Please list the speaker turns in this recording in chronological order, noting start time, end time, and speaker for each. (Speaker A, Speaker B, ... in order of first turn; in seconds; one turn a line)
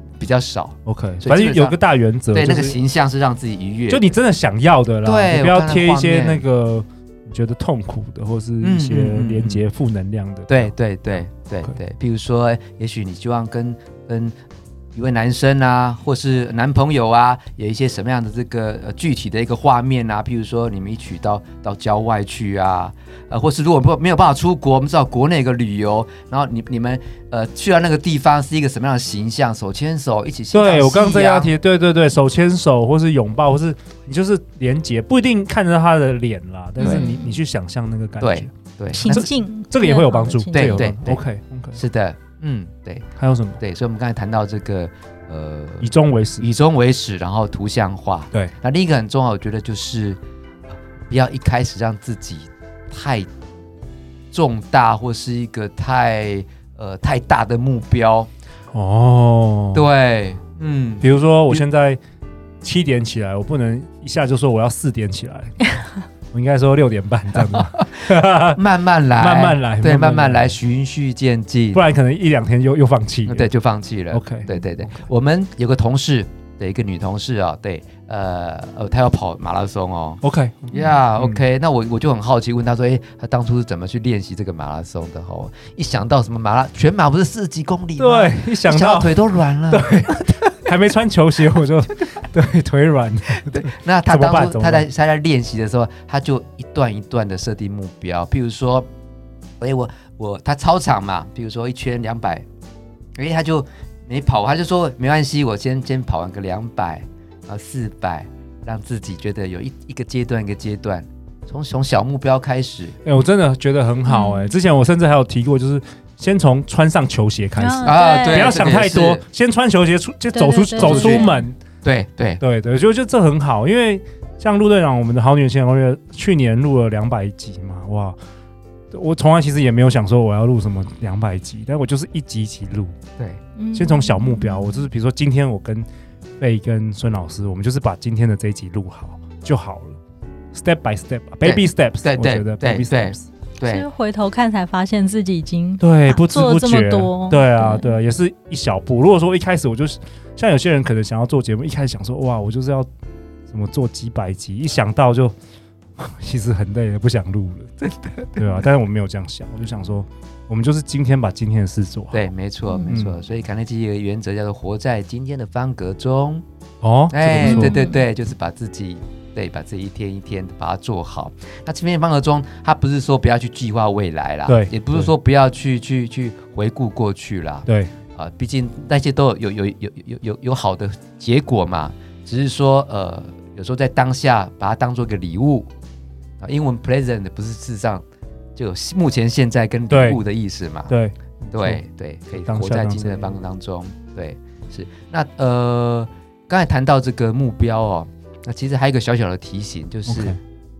Speaker A: 0.2-1.8
Speaker B: 0.8-2.8
Speaker A: 2.3-4.1
Speaker B: 3.9-11.7
Speaker A: 5.0-6.4
Speaker A: 8.6-9.6
Speaker A: 10.5-14.3
Speaker A: 14.9-31.5
Speaker B: 30.5-38.5
Speaker A: 36.8-37.1
Speaker C: 36.8-37.4
Speaker A: 38.2-39.2
Speaker C: 38.9-40.9
Speaker B: 39.0-41.8
Speaker A: 40.5-41.2
Speaker A: 41.7-43.0
Speaker B: 43.2-43.6
Speaker A: 43.6-50.2
Speaker B: 45.8-46.5
Speaker A: 51.1-53.3
Speaker A: 54.3-58.3
Speaker B: 58.7-59.9
Speaker A: 59.7-61.6
Speaker B: 61.0-62.0
Speaker B: 62.6-65.6
Speaker B: 66.3-68.6
Speaker A: 67.3-67.9
Speaker A: 68.5-71.8
Speaker B: 69.1-70.5
Speaker B: 71.7-73.5
Speaker A: 73.2-80.2
Speaker B: 74.1-75.1
Speaker B: 80.2-81.4
Speaker A: 80.7-90.3
Speaker B: 88.0-94.9
Speaker A: 93.4-98.9
Speaker A: 99.6-102.4
Speaker A: 103.2-113.0
Speaker B: 113.0-121.6
Speaker C: 114.0-114.5
Speaker C: 117.5-118.6
Speaker A: 117.8-119.2
Speaker C: 120.3-121.4
Speaker A: 120.8-121.3
Speaker A: 121.8-122.4
Speaker B: 122.4-128.2
Speaker B: 128.9-132.9
Speaker C: 133.6-134.9
Speaker B: 133.7-135.9
Speaker B: 136.4-140.0
Speaker B: 140.5-143.3
Speaker A: 141.4-143.8
Speaker C: 143.6-148.0
Speaker B: 145.8-152.9
Speaker B: 153.5-155.3
Speaker B: 156.0-157.7
Speaker A: 157.8-158.6
Speaker B: 158.4-162.3
Speaker A: 162.1-166.4
Speaker B: 162.9-163.2
Speaker B: 166.8-167.8
Speaker A: 167.1-185.7
Speaker C: 167.4-168.0
Speaker B: 174.4-175.1
Speaker B: 177.7-177.9
Speaker A: 186.4-188.0
Speaker A: 188.6-190.9
Speaker B: 189.9-190.2
Speaker B: 190.9-191.8
Speaker A: 191.5-200.4
Speaker B: 192.4-193.4
Speaker B: 200.1-200.4